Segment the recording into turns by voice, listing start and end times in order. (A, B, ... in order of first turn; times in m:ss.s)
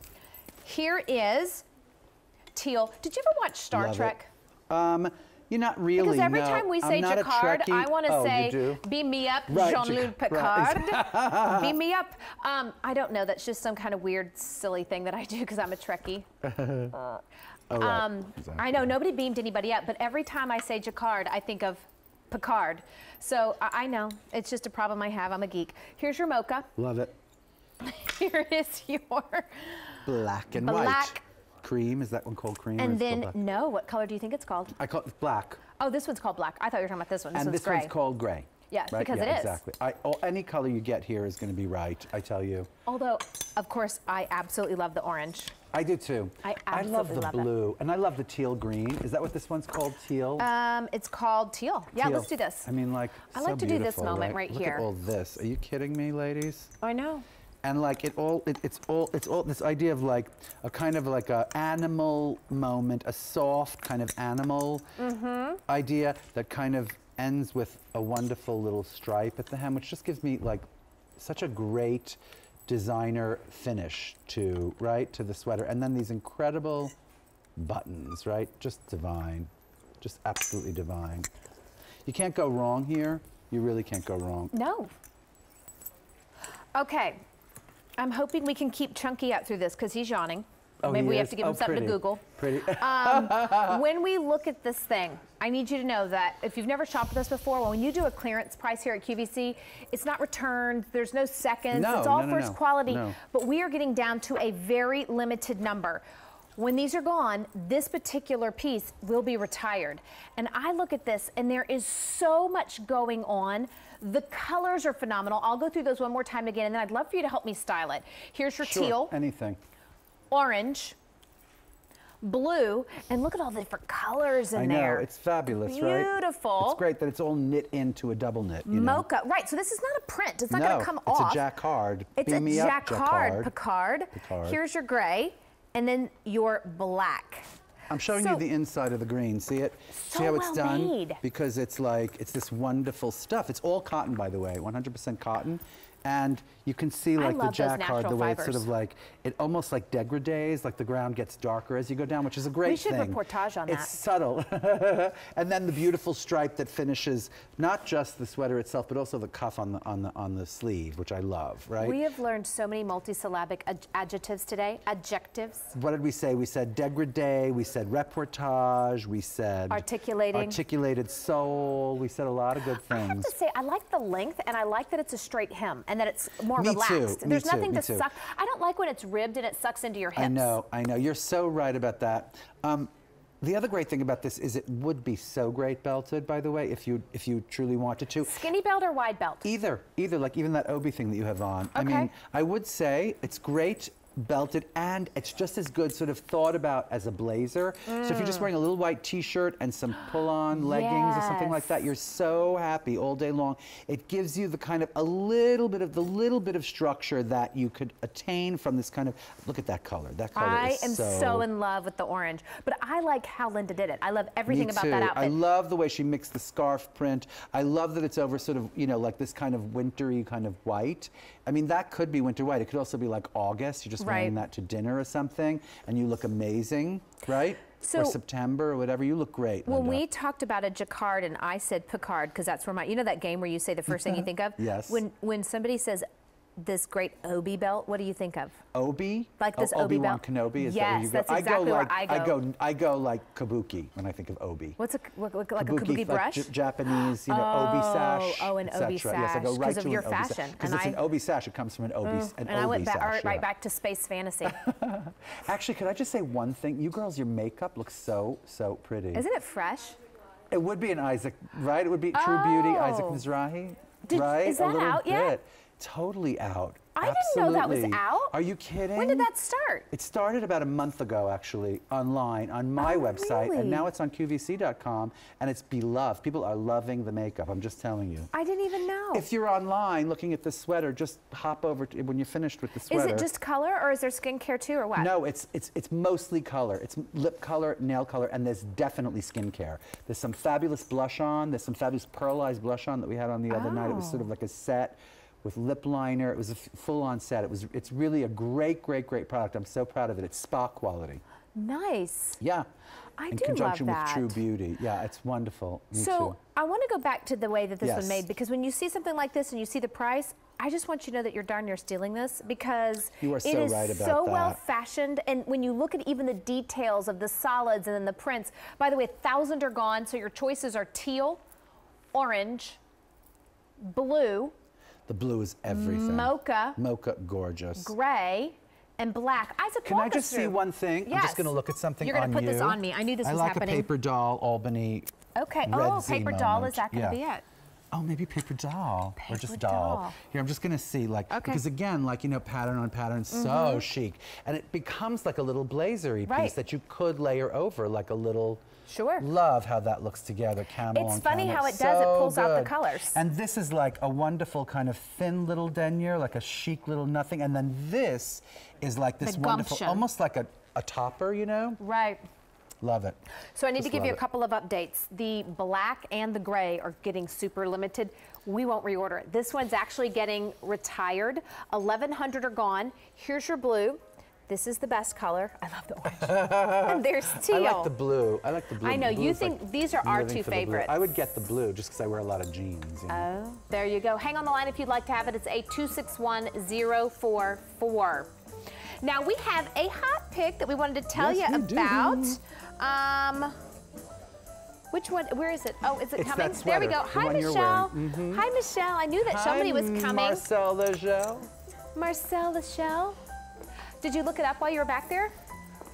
0:00.6-0:01.6 A
0:02.5-0:04.3 A
0:03.7-0:04.2 B
0:04.7-0:08.8 B
0:06.0-0:16.3 A
0:09.5-0:11.8 B
0:16.4-0:17.1 B
0:17.7-0:18.9 B
0:17.8-0:26.7 A
0:26.8-0:27.1 B
0:27.8-0:31.2 A
0:30.0-0:33.4 B
0:32.8-0:34.7 A
0:34.8-0:35.6 B
0:35.8-0:37.9 A
0:37.3-0:42.7 B
0:38.7-0:39.6 A
0:42.8-0:45.5 A
0:45.7-0:50.5 B
0:46.4-0:47.5 A
0:50.4-0:52.7 A
0:51.9-0:56.7 B
0:53.3-0:54.9 A
0:56.8-0:57.2 A
0:57.6-1:05.0 B
1:05.0-1:05.6 A
1:05.7-1:10.6 B
1:11.2-1:16.9 B
1:17.6-1:19.5 B
1:20.0-1:21.3 B
1:22.0-1:24.5 B
1:24.5-1:24.9 A
1:26.7-1:27.2 A
1:28.0-1:46.0 A
1:30.8-1:33.8 B
1:41.7-1:43.2 B
1:46.6-1:59.1 A
1:58.6-1:59.6 B
2:00.3-2:01.0 A
2:02.2-2:06.8 A
2:04.5-2:09.0 B
2:08.6-2:11.4 A
2:10.5-2:13.5 B
2:12.2-2:17.5 A
2:14.1-2:14.6 B
2:17.9-2:42.0 B
2:18.1-2:18.4 A
2:19.9-2:21.2 A
2:27.2-2:28.7 A
2:32.6-2:34.0 A
2:41.8-2:45.6 A
2:45.7-2:53.3 B
2:49.7-2:50.6 A
2:52.8-3:00.6 A
2:56.5-2:58.1 B
3:00.2-3:02.9 B
3:03.4-3:08.5 B
3:08.2-3:09.5 A
3:09.4-3:31.4 B
3:11.7-3:12.1 A
3:17.9-3:18.5 A
3:20.5-3:21.8 A
3:30.3-3:35.4 A
3:34.5-3:50.0 B
3:44.0-3:44.4 A
3:47.8-3:48.2 A
3:49.6-3:56.0 A
3:53.9-3:55.0 B
3:56.6-3:58.6 A
3:58.7-4:04.8 B
3:59.4-4:02.4 A
4:04.8-4:11.0 A
4:05.6-4:13.4 B
4:12.0-4:14.6 A
4:14.4-4:19.2 B
4:19.1-4:20.0 A
4:20.5-4:29.3 B
4:22.1-4:23.2 A
4:24.0-4:25.4 A
4:27.0-4:28.4 A
4:28.9-4:29.9 A
4:29.9-4:38.3 B
4:32.8-4:33.9 A
4:38.3-4:39.2 A
4:39.1-4:43.3 B
4:42.9-4:45.1 A
4:45.0-5:01.2 B
4:53.5-4:54.3 A
5:01.6-5:02.4 A
5:02.4-5:02.7 B
5:03.2-5:04.4 A
5:03.3-5:06.4 B
5:05.9-5:21.4 A
5:07.8-5:08.2 B
5:13.2-5:14.6 B
5:22.1-5:22.8 A
5:23.8-5:24.5 A
5:25.1-5:27.9 B
5:25.7-5:26.8 A
5:27.8-5:33.9 A
5:29.8-5:35.1 B
5:35.3-5:37.4 A
5:35.6-5:37.2 B
5:37.9-5:48.6 B
5:39.2-5:40.1 A
5:41.3-5:41.6 A
5:43.3-5:43.8 A
5:46.2-5:46.6 A
5:48.9-5:49.3 A
5:49.2-6:01.8 B
5:50.9-5:53.2 A
5:59.2-6:00.0 A
6:01.8-6:02.2 A
6:02.8-6:03.2 B
6:03.5-6:17.9 A
6:03.8-6:04.2 B
6:16.1-6:23.3 B
6:18.8-6:21.0 A
6:23.1-6:28.3 A
6:29.0-6:33.6 A
6:31.1-6:32.4 B
6:34.9-6:40.4 A
6:36.2-6:38.5 B
6:39.2-6:41.5 B
6:41.9-6:43.2 A
6:44.0-6:45.3 A